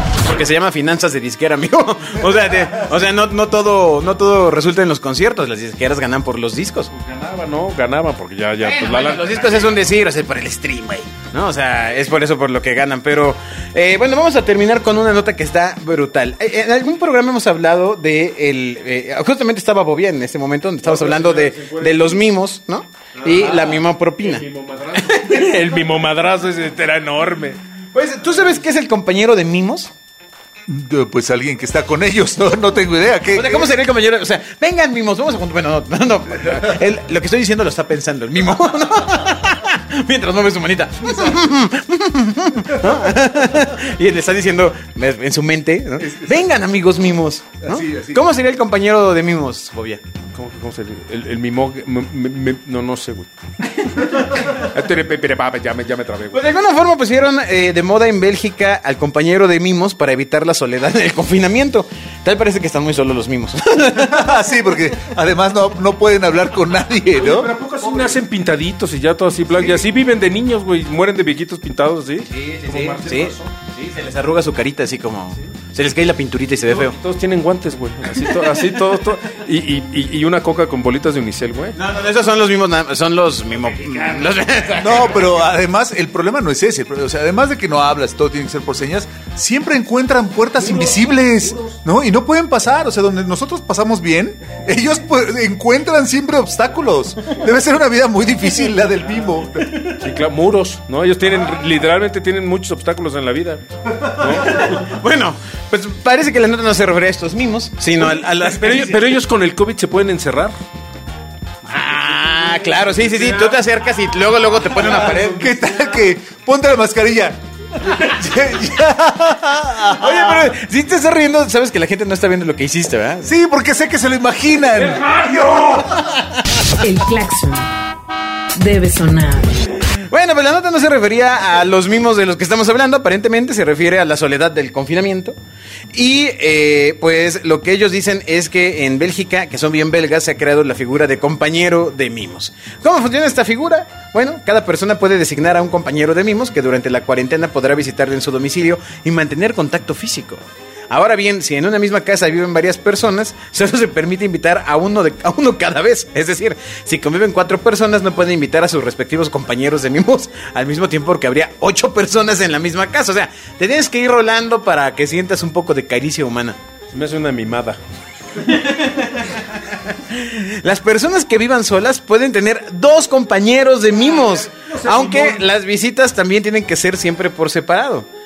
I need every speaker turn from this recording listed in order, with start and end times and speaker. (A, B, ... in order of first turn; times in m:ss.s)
0:00.2-0:06.9 A
0:06.9-0:09.8 B
0:08.6-0:24.4 A
0:20.8-0:22.2 B
0:23.2-0:27.6 B
0:25.0-0:25.7 A
0:27.9-0:29.9 A
0:30.7-0:33.8 C
0:33.3-0:50.0 A
0:46.0-0:46.5 C
0:47.6-0:48.2 C
0:50.3-0:56.5 B
0:56.3-1:04.3 A
1:04.0-1:07.5 C
1:07.2-1:13.5 B
1:12.3-1:17.0 A
1:16.7-1:21.8 B
1:21.8-1:25.4 A
1:23.8-1:25.0 B
1:24.8-1:40.0 C
1:30.6-1:31.8 B
1:40.0-1:44.9 B
1:44.2-1:49.0 A
1:48.0-1:50.6 B
1:51.6-1:55.5 A
1:52.1-1:53.6 B
1:54.7-1:55.6 B
1:55.2-2:00.5 C
1:59.9-2:03.3 A
2:03.2-2:05.2 C
2:04.8-2:06.1 B
2:05.8-2:06.6 A
2:06.7-2:07.7 D
2:08.5-2:09.6 D
2:09.9-2:15.4 A
2:15.9-2:46.6 A
2:46.9-2:47.8 B
2:48.4-2:58.1 A
2:53.9-2:55.5 B